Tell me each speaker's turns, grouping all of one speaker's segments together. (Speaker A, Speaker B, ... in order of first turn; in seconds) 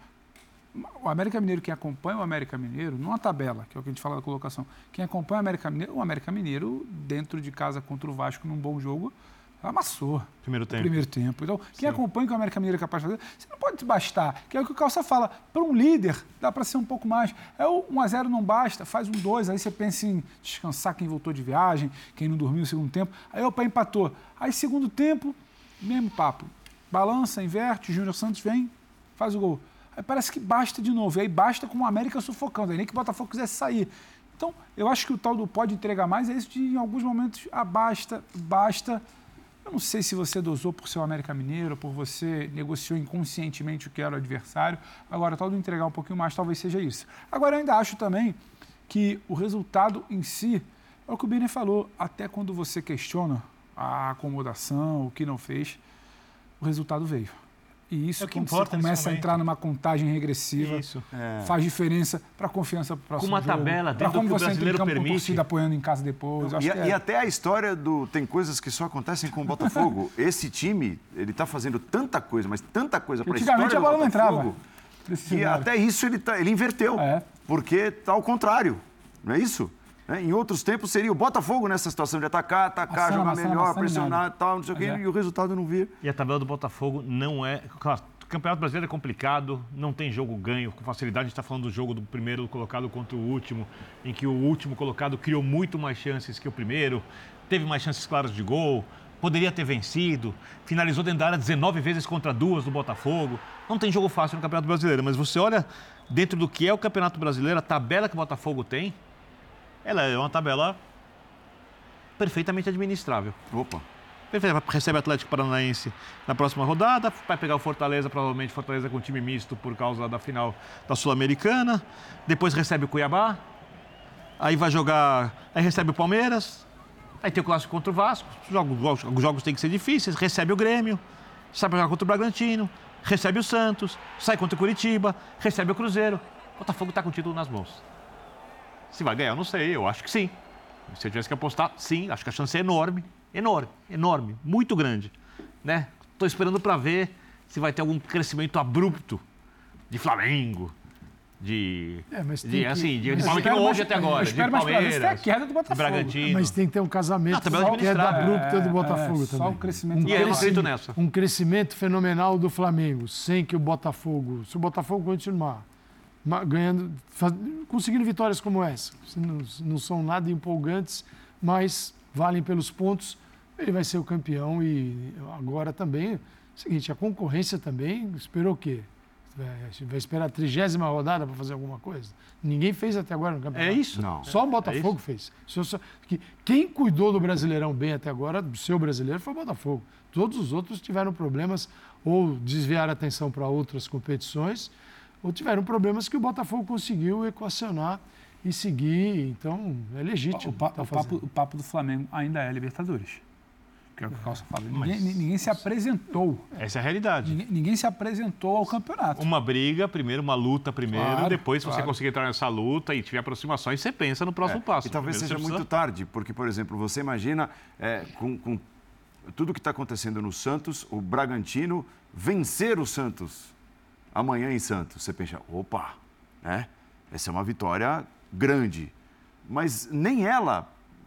Speaker A: 0.7-39.0, 39.6-55.8, 56.6-57.4, 57.9-60.9, 61.4-67.0, 73.2-74.5, 75.1-75.7, 77.0-77.2, 82.9-85.0, 153.1-156.2, 157.5-160.6, 200.3-203.2, 203.9-206.5, 207.2-209.2, 210.9-211.9
Speaker B: 10.4-11.0, 58.2-59.3, 60.6-61.0, 63.2-65.4, 86.0-109.0, 109.8-110.8, 112.2-113.4, 114.3-123.4, 124.4-126.7, 127.2-131.0, 131.5-137.8, 138.9-140.3, 140.9-145.1, 145.6-149.2, 149.9-150.7, 151.4-156.6, 157.3-158.4, 160.0-160.9, 183.5-184.9, 204.7-205.2, 206.6-207.4, 209.2-215.6
Speaker C: 61.1-61.5, 66.4-74.6, 75.3-85.9, 113.5-113.8, 183.9-184.3, 214.4-218.6, 219.3-223.5, 224.1-228.9, 229.4-230.7
Speaker D: 152.1-154.3, 156.2-165.6, 166.2-201.2